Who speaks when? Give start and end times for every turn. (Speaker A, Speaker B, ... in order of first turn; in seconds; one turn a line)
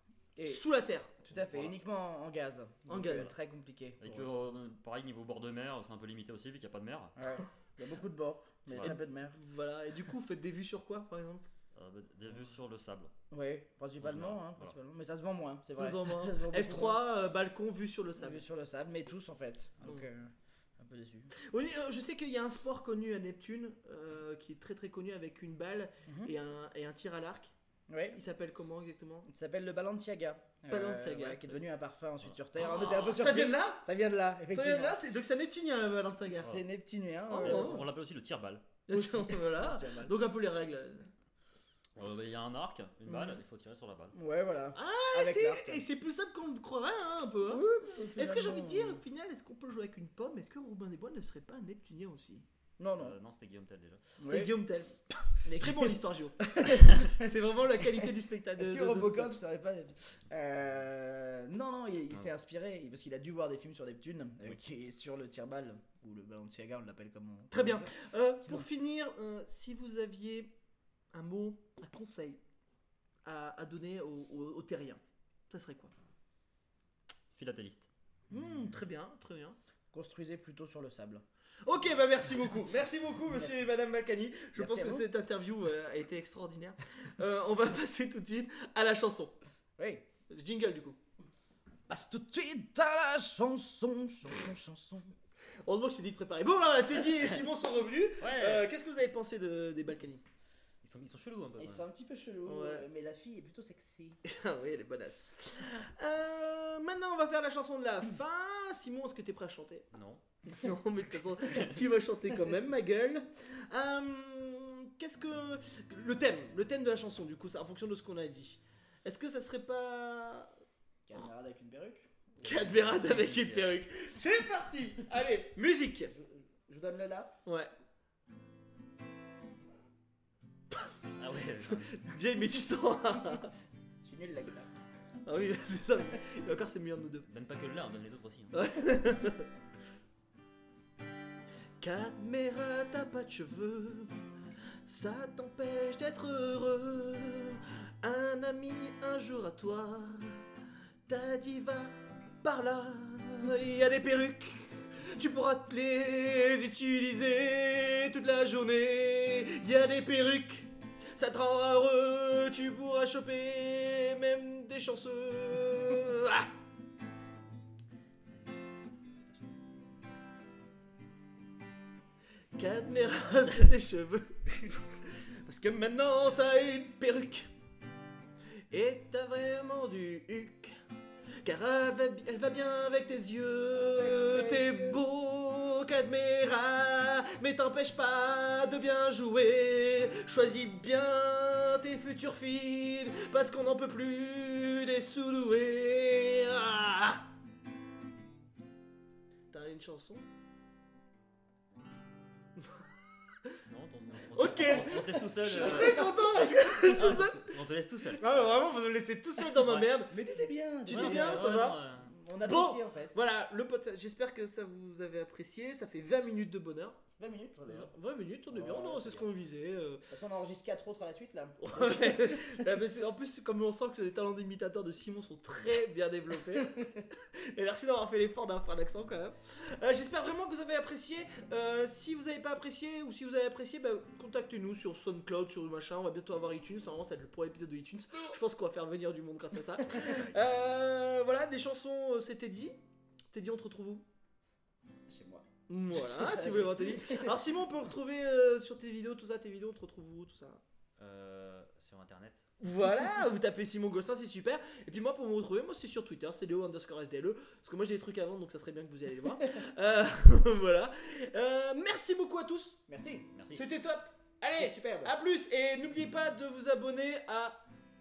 Speaker A: 0.4-0.6
Speaker B: 0.5-1.1
Speaker A: 1.2-4.3
Speaker C: 1.3-1.8
Speaker B: 2.9-3.3
Speaker C: 3.0-3.3
Speaker C: 4.0-7.2
Speaker A: 7.2-9.4
Speaker C: 8.7-9.0
Speaker B: 8.8-11.5
Speaker C: 11.8-13.1
Speaker A: 13.3-17.1
Speaker C: 14.0-14.8
Speaker B: 15.8-18.4
Speaker A: 18.2-21.3
Speaker B: 21.4-27.5
Speaker A: 26.1-26.3
Speaker A: 27.9-28.2
Speaker B: 28.1-29.3
Speaker A: 29.3-35.0
Speaker B: 30.7-31.6
Speaker B: 32.6-33.9
Speaker B: 34.5-36.6
Speaker A: 36.3-37.9
Speaker B: 37.3-37.8
Speaker C: 37.4-38.6
Speaker B: 38.9-41.1
Speaker A: 38.9-40.2
Speaker C: 42.0-44.1
Speaker A: 43.1-43.4
Speaker A: 44.1-45.9
Speaker B: 44.8-47.6
Speaker A: 47.5-49.0
Speaker B: 48.1-52.5
Speaker A: 52.8-53.2
Speaker C: 53.0-54.0
Speaker A: 54.2-54.6
Speaker B: 54.2-54.9
Speaker A: 55.5-57.3
Speaker B: 55.5-59.3
Speaker A: 57.9-67.9
Speaker B: 67.5-70.5
Speaker B: 71.1-72.4
Speaker B: 73.2-75.9
Speaker C: 77.3-77.9
Speaker B: 78.3-79.6
Speaker A: 79.9-81.2
Speaker B: 81.7-89.4
Speaker A: 83.3-83.7
Speaker A: 84.5-85.1
Speaker A: 89.8-90.1
Speaker B: 90.3-91.0
Speaker A: 91.9-95.1
Speaker B: 95.7-100.2
Speaker C: 98.2-98.7
Speaker C: 100.8-101.9
Speaker A: 101.6-104.2
Speaker B: 102.5-102.9
Speaker B: 104.2-109.9
Speaker C: 109.9-110.2
Speaker B: 110.5-120.5
Speaker A: 121.1-122.5
Speaker B: 122.4-126.1
Speaker C: 122.4-123.8
Speaker A: 126.1-127.3
Speaker B: 127.5-127.7
Speaker C: 131.2-131.9
Speaker B: 131.6-133.5
Speaker A: 134.0-134.7
Speaker B: 135.2-137.3
Speaker C: 137.3-138.6
Speaker B: 138.5-139.5
Speaker B: 141.8-144.2
Speaker B: 144.9-150.4
Speaker B: 151.1-166.5
Speaker B: 172.6-174.8
Speaker B: 175.4-177.5
Speaker B: 178.7-180.8
Speaker B: 181.4-197.2
Speaker A: 183.7-185.0
Speaker B: 199.5-200.2
Speaker C: 203.7-208.4
Speaker B: 204.3-207.4
Speaker A: 204.7-206.1
Speaker B: 208.1-210.2
Speaker C: 209.6-209.9
Speaker A: 210.1-211.5
Speaker B: 210.9-211.8
Speaker C: 210.9-212.1
Speaker A: 212.1-213.2
Speaker B: 212.4-217.0
Speaker A: 217.2-217.9
Speaker B: 217.7-220.1
Speaker A: 218.5-219.3
Speaker A: 220.1-222.4
Speaker B: 221.6-242.8
Speaker C: 240.0-240.4
Speaker B: 243.3-244.1
Speaker A: 245.1-245.4
Speaker B: 245.7-250.6
Speaker A: 246.0-247.4
Speaker C: 251.0-252.5
Speaker B: 252.6-262.8
Speaker A: 262.9-263.3
Speaker C: 263.3-263.6
Speaker B: 263.5-267.6
Speaker A: 264.6-265.1